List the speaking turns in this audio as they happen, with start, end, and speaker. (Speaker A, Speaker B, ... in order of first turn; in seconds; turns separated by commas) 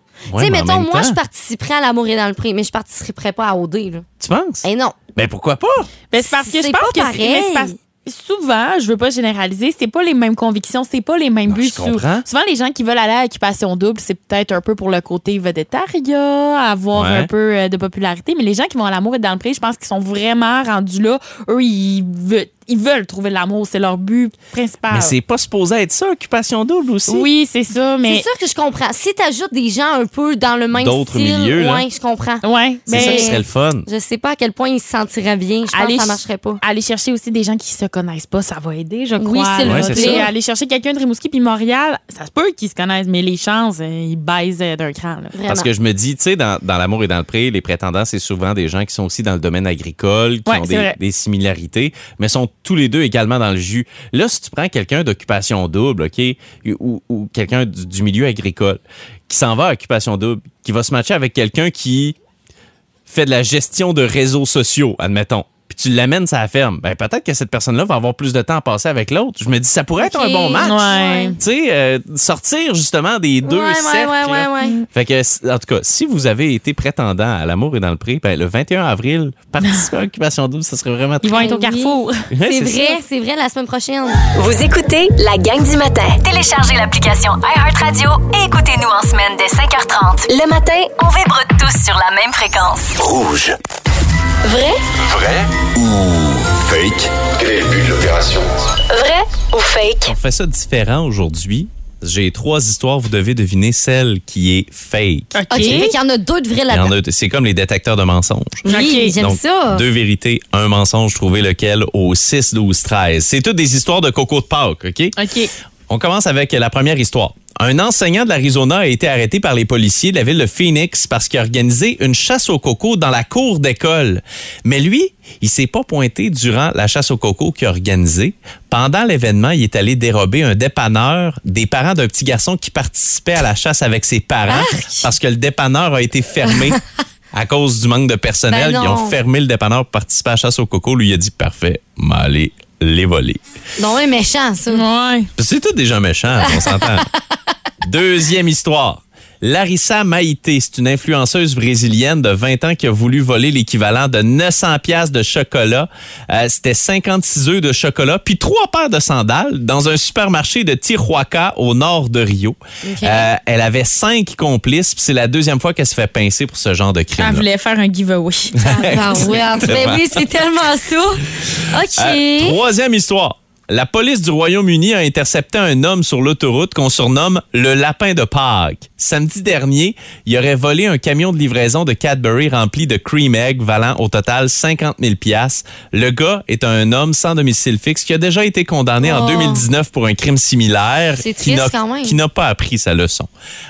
Speaker A: 0.3-1.2, Speaker B: 0.4-4.0, Speaker A: 4.2-4.6, Speaker B: 4.6-5.0, Speaker A: 5.2-5.9, Speaker C: 6.1-25.1, Speaker B: 6.2-7.8, Speaker A: 11.5-12.2, Speaker A: 16.9-17.3, Speaker A: 24.9-27.3, Speaker C: 27.1-28.2, Speaker B: 28.1-36.6, Speaker A: 30.7-31.8, Speaker C: 32.4-33.3, Speaker A: 32.9-33.9, Speaker C: 35.7-45.3, Speaker B: 39.2-40.3, Speaker A: 39.6-40.3, Speaker B: 45.3-45.7, Speaker A: 45.5-62.2, Speaker C: 50.5-50.9, Speaker A: 63.1-81.5, Speaker B: 70.0-71.4, Speaker C: 70.6-71.4, Speaker B: 73.4-74.8, Speaker C: 81.2-82.3, Speaker B: 81.3-84.2, Speaker A: 82.3-83.0, Speaker D: 84.3-93.0, Speaker E: 93.0-93.6, Speaker D: 94.4-94.8, Speaker E: 95.0-98.7, Speaker D: 98.9-100.1, Speaker A: 100.0-105.9, Speaker C: 105.3-105.9, Speaker B: 105.5-106.9, Speaker A: 106.7-108.7, Speaker B: 108.6-109.8, Speaker C: 108.7-109.1, Speaker A: 109.2-115.2, Speaker C: 115.2-115.5, Speaker A: 115.9-136.8, Speaker B: 134.5-135.1, Speaker B: 136.5-136.8, Speaker A: 137.3-143.4, Speaker B: 138.5-139.2, Speaker B: 143.8-144.8, Speaker C: 144.7-145.3, Speaker A: 145.3-147.1, Speaker B: 146.4-147.2, Speaker A: 147.8-167.5, Speaker B: 162.8-163.3, Speaker C: 167.2-169.4, Speaker A: 168.5-170.3, Speaker B: 168.6-172.6, Speaker A: 171.5-193.3, Speaker B: 189.0-189.6, Speaker B: 191.2-192.2